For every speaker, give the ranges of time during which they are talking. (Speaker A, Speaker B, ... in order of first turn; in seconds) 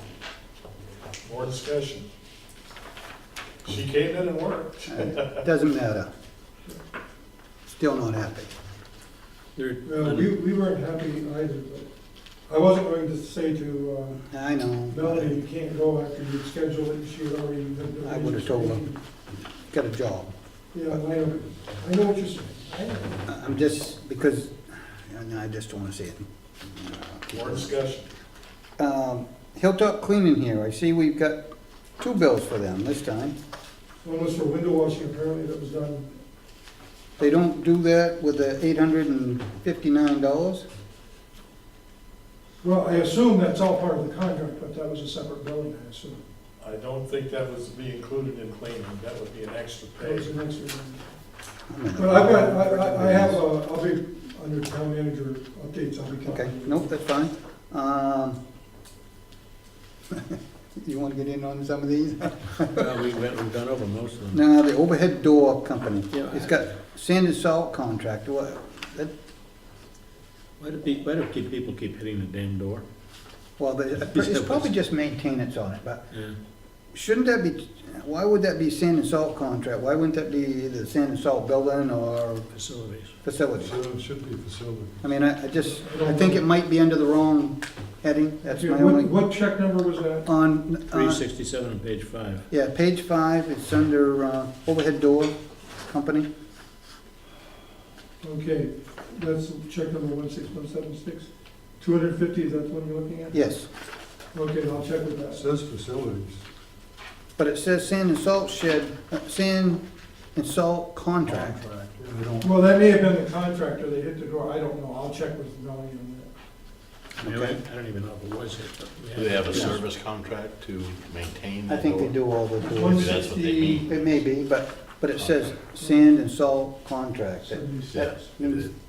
Speaker A: 1.2-2.1, 3.6-5.4, 27.3-28.1, 46.6-50.3, 119.2-119.8, 123.0-123.8, 125.1-125.5, 127.9-128.7
Speaker B: 4.9-6.1, 7.7-8.5, 14.3-15.4, 18.0-18.9, 19.6-20.3, 23.3-27.7, 28.8-31.4, 32.0-33.3, 37.2-40.7, 51.7-53.4, 56.3-58.4, 60.1-62.9, 64.3-69.1, 73.6-76.2, 76.9-82.5, 83.2-83.7, 85.0-89.1, 90.2-91.2, 92.5-96.3, 103.3-103.7, 107.4-109.8, 110.3-111.6, 117.2-117.6, 121.7-128.7
Speaker C: 9.5-10.4, 62.7-64.4, 66.1-66.6, 70.6-72.8, 74.0-74.7, 76.1-76.4, 82.5-83.1, 90.9-92.5, 117.2-119.8
Speaker D: 9.8-14.3, 14.9-19.0, 20.7-23.3, 34.0-36.2, 42.6-46.2, 50.0-51.2, 51.9-56.9, 85.6-86.4, 88.4-90.3, 98.2-103.4, 104.3-105.4, 112.4-116.3, 122.6-123.8, 125.8-126.1, 127.5-128.1
Speaker E: 83.6-85.0, 105.3-106.4, 111.2-112.6
Speaker F: 119.4-122.1, 123.0-123.8